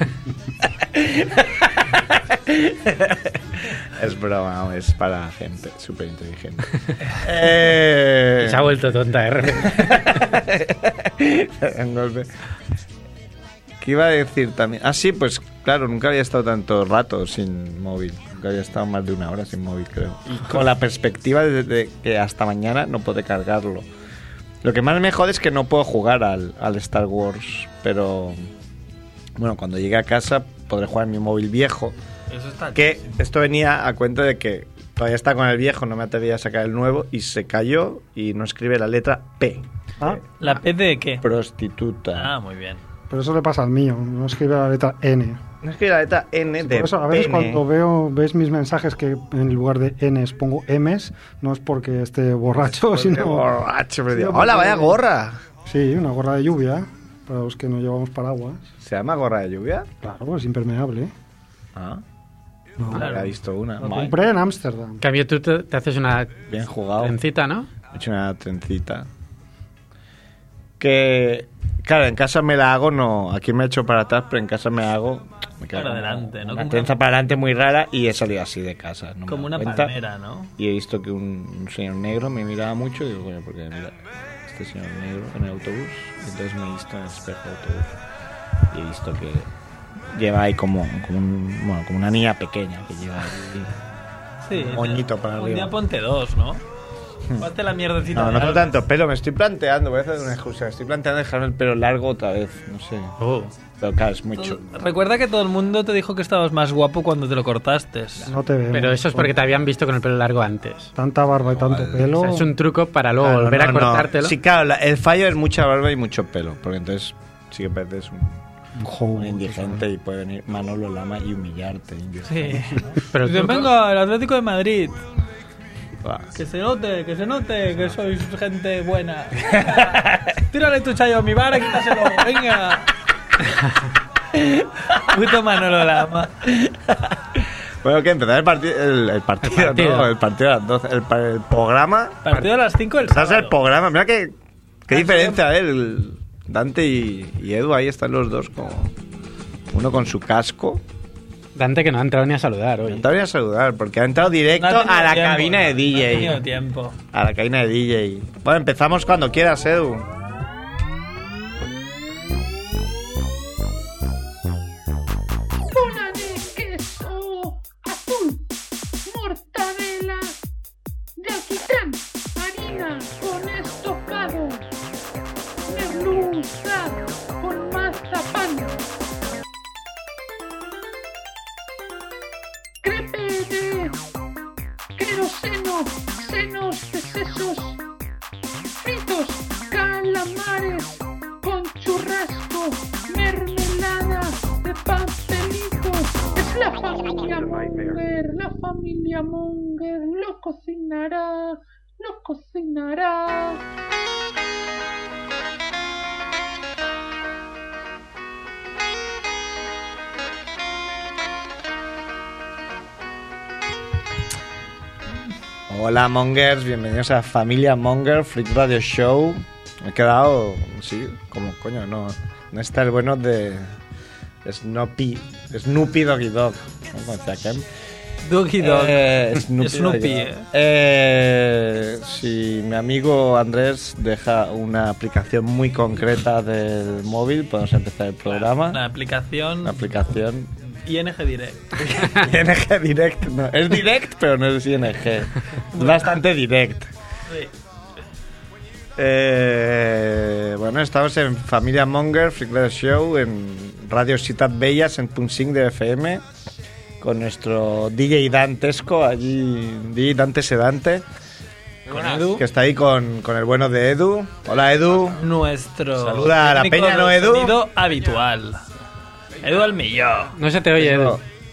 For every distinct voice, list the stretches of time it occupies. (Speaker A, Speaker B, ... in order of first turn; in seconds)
Speaker A: 0.8-8.7, 9.5-12.3, 13.8-23.9, 24.6-28.5, 29.4-31.9, 32.7-40.2, 41.2-42.3, 45.6-47.6, 52.6-55.4, 58.8-59.9, 61.7-62.0, 62.9-64.2, 66.5-67.2, 67.9-69.1, 70.8-79.9, 80.6-88.0, 88.7-89.5, 90.1-93.7, 94.5-95.7, 98.1-103.1, 103.8-104.8, 111.5-111.9, 113.2-118.4, 119.1-122.8, 126.0-126.3, 129.4-130.4, 136.5-142.2, 143.0-144.3, 144.9-148.9, 149.7-150.8, 152.9-156.4, 157.1-160.1, 215.7-223.8, 224.4-227.7, 228.6-238.8, 239.6-240.5, 241.8-246.9, 248.9-256.2, 257.0-261.0, 261.9-265.2, 265.9-267.6, 270.8-271.2
Speaker B: 8.4-10.2, 65.0-66.4, 67.0-67.7, 103.2-103.5, 108.7-110.9, 112.0-114.3, 123.1-123.7, 139.4-140.1, 151.5-153.1, 270.3-271.2
Speaker C: 32.3-33.0, 40.4-41.2, 42.1-42.8, 62.9-63.3, 75.7-76.9, 79.3-80.5, 94.4-96.6, 97.4-98.7, 104.4-108.3, 122.2-125.0, 126.3-132.9, 134.9-136.3, 142.2-143.6, 144.9-145.4, 154.6-157.0, 228.2-230.4, 238.3-239.9, 240.7-241.6, 245.7-246.2, 261.9-262.4, 265.1-268.6, 269.4-270.3
Speaker D: 43.1-45.4, 46.6-53.5, 54.1-55.0, 55.6-58.6, 60.0-61.1, 62.8-63.1, 63.8-65.0, 108.2-109.3, 111.0-112.5, 118.8-119.8
Speaker E: 165.7-168.4, 169.0-170.3, 171.2-174.6, 175.7-178.8, 182.8-184.0, 185.0-187.8, 188.8-203.6